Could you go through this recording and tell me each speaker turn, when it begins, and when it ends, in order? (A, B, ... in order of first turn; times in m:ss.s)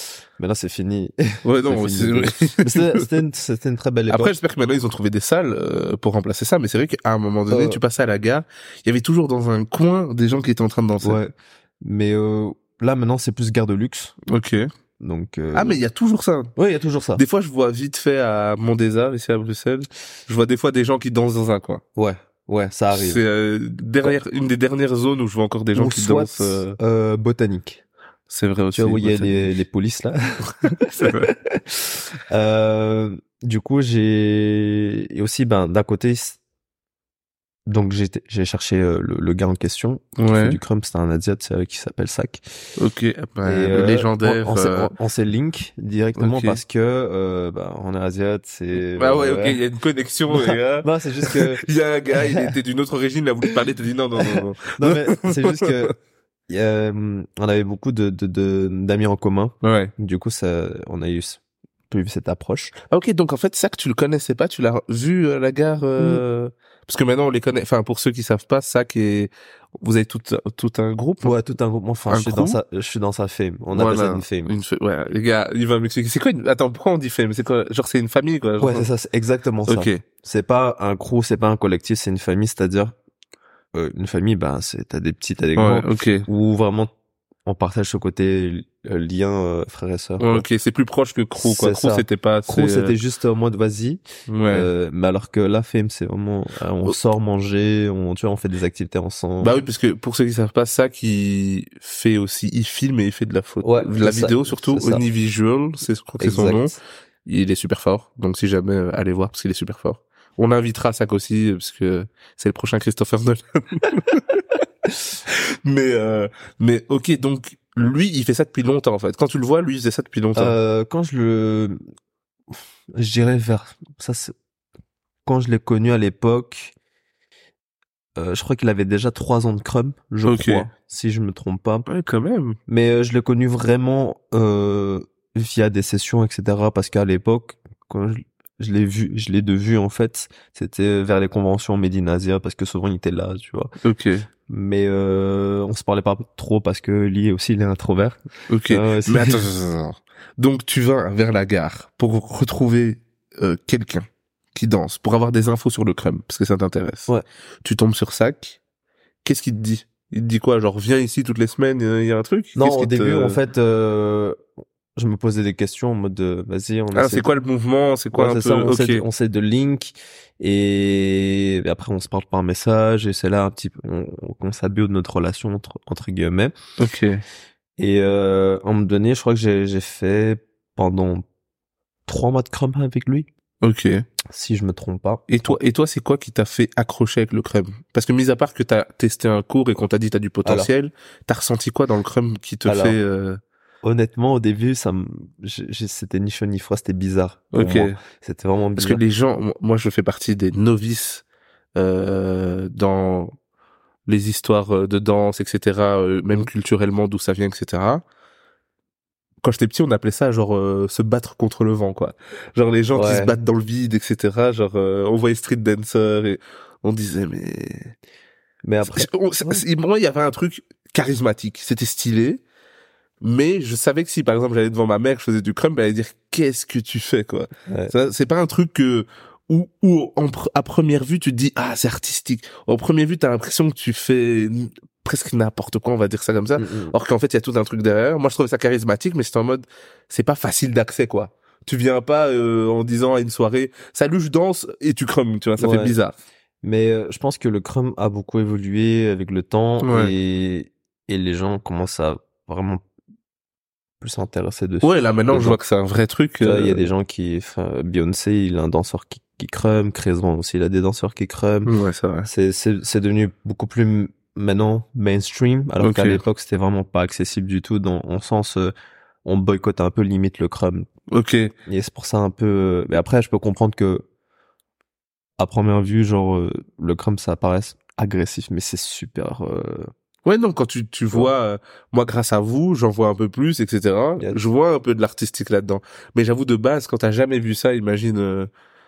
0:00.4-0:04.3 A
0:01.4-0:03.1 B
0:04.1-0:11.2 B
0:07.5-0:07.8 A
0:11.0-0:14.2 A
0:14.3-0:14.7 B
0:15.0-0:15.8 A
0:15.5-0:16.5 B
0:16.6-0:17.2 A
0:17.2-0:21.8 B
0:22.0-0:23.2 A
0:22.9-0:26.6 B
0:25.8-0:27.8 A
0:28.3-0:29.5 B
0:28.7-0:36.4 A
0:30.5-0:31.3 B
0:37.7-0:42.4 A
0:40.2-0:40.6 B
0:42.8-0:44.9 B
0:43.4-0:49.6 A
0:46.2-0:46.6 B
0:49.0-0:55.9 B
0:50.3-0:52.6 A
0:54.3-0:56.0 A
0:56.5-1:02.8 A
0:59.6-0:59.9 B
1:02.9-1:11.4 B
1:11.2-1:14.5 A
1:12.1-1:12.6 B
1:13.7-1:18.9 B
1:18.6-1:23.0 A
1:19.7-1:20.0 B
1:23.7-1:26.9 A
1:25.6-1:26.3 B
1:27.5-1:30.4 A
1:30.2-1:33.0 B
1:31.4-1:39.6 A
1:34.3-1:34.7 B
1:39.4-1:46.8 B
1:43.6-1:45.0 A
1:46.2-1:46.8 A
1:47.3-1:54.4 B
1:55.3-2:00.6 B
2:00.4-2:01.8 A
2:02.9-2:04.3 A
2:05.2-2:06.8 A
2:08.2-2:11.9 A
2:10.2-2:10.7 B
2:11.9-2:12.6 B
2:12.7-2:23.7 A
2:23.8-2:24.3 B
2:24.5-2:29.5 A
2:28.5-2:37.1 B
2:37.6-2:38.6 B
2:39.2-2:43.4 B
2:42.6-2:44.4 A
2:45.0-2:47.3 A
2:46.9-2:49.0 B
2:48.1-2:56.5 A
2:56.8-2:57.2 B
2:57.8-3:01.2 A
3:02.1-3:03.3 A
3:03.6-3:04.0 B
3:04.3-3:05.6 A
3:05.3-3:13.4 B
3:10.4-3:10.7 A
3:12.6-3:13.0 A
3:13.8-3:19.0 A
3:17.5-3:18.0 B
3:18.8-3:21.2 B
3:21.8-3:23.3 B
3:24.1-3:28.0 B
3:29.4-3:37.9 B
3:32.9-3:33.4 A
3:38.6-3:39.6 A
3:38.8-3:42.4 B
3:43.2-4:06.2 B
3:47.7-3:47.9 A
3:56.6-3:56.9 A
4:05.6-4:06.0 A
4:06.6-4:12.8 A
4:09.8-4:10.1 B
4:14.0-4:15.6 A
4:14.8-4:16.9 B
4:16.4-4:21.7 A
4:21.7-4:22.3 B
4:22.2-4:28.7 A
4:25.8-4:26.2 B
4:29.2-4:30.9 A
4:31.1-4:31.5 B
4:31.7-4:34.1 A
4:35.4-4:39.9 A
4:40.3-4:48.5 B